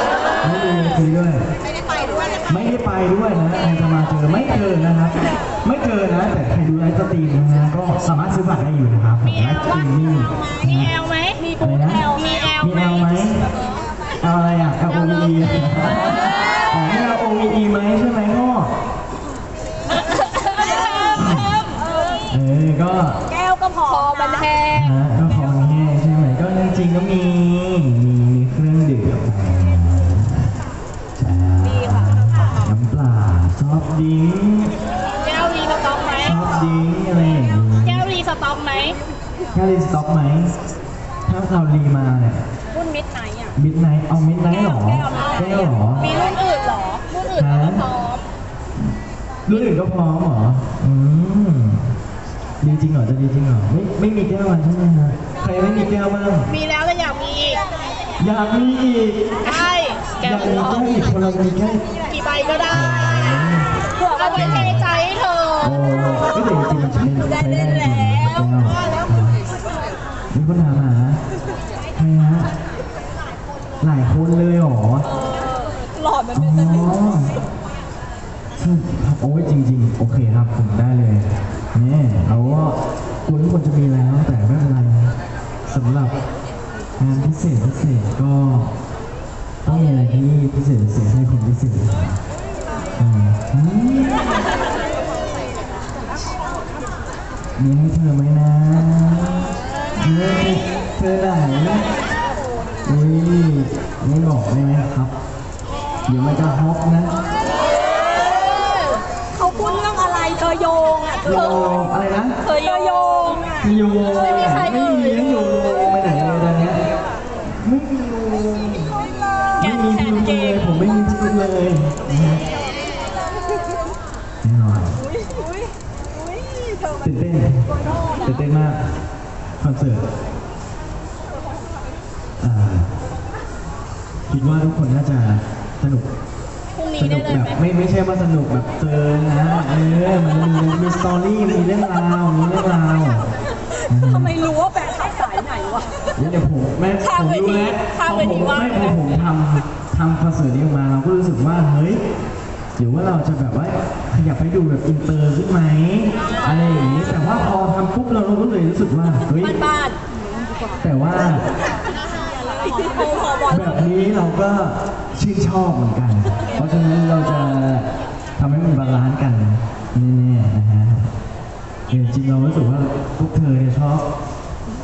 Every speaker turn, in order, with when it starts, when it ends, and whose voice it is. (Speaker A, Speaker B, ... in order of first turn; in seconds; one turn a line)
Speaker A: 0.4-1.5
Speaker A: 2.5-11.0
Speaker B: 10.8-13.0
Speaker A: 11.6-12.1
Speaker A: 12.6-13.5
Speaker A: 14.2-18.7
Speaker B: 20.4-21.8
Speaker A: 21.1-21.6
Speaker A: 22.3-23.2
Speaker B: 23.3-24.9
Speaker A: 24.7-30.6
Speaker A: 31.2-34.7
Speaker B: 35.2-36.3
Speaker A: 36.2-38.1
Speaker B: 37.9-39.0
Speaker A: 39.5-40.5
Speaker A: 41.3-42.4
Speaker B: 42.7-43.5
Speaker A: 43.6-46.1
Speaker B: 44.8-48.2
Speaker A: 47.4-47.8
Speaker A: 49.5-52.0
Speaker A: 52.6-56.5
Speaker B: 56.5-57.6
Speaker A: 58.2-59.3
Speaker B: 59.5-60.2
Speaker A: 60.2-61.8
Speaker B: 62.1-62.7
Speaker A: 62.7-63.8
Speaker B: 64.0-65.6
Speaker A: 64.3-64.9
Speaker A: 65.6-69.4
Speaker A: 70.3-71.2
Speaker A: 72.0-72.5
Speaker A: 73.8-75.1
Speaker A: 76.3-77.4
Speaker A: 78.6-85.1
Speaker A: 85.7-86.1
Speaker A: 87.0-88.7
Speaker A: 89.6-92.2
Speaker A: 93.0-94.3
Speaker A: 97.6-101.8
Speaker A: 102.8-105.1
Speaker A: 106.1-107.2
Speaker B: 109.4-111.2
Speaker A: 111.2-112.4
Speaker B: 112.4-113.6
Speaker A: 113.6-116.8
Speaker B: 114.5-114.7
Speaker A: 117.5-118.9
Speaker A: 119.6-122.4
Speaker B: 119.6-120.6
Speaker A: 124.4-125.0
Speaker A: 127.0-127.7
Speaker A: 128.2-128.9
Speaker A: 129.6-130.1
Speaker A: 132.4-132.9
Speaker A: 134.3-136.1
Speaker B: 136.8-137.6
Speaker A: 137.0-143.3
Speaker A: 143.9-144.3
Speaker B: 144.3-145.9
Speaker A: 146.2-152.0
Speaker B: 147.4-148.8
Speaker A: 152.8-159.6
Speaker B: 159.4-160.0
Speaker A: 160.8-161.4
Speaker B: 162.8-163.5
Speaker A: 163.5-171.1
Speaker A: 171.9-174.1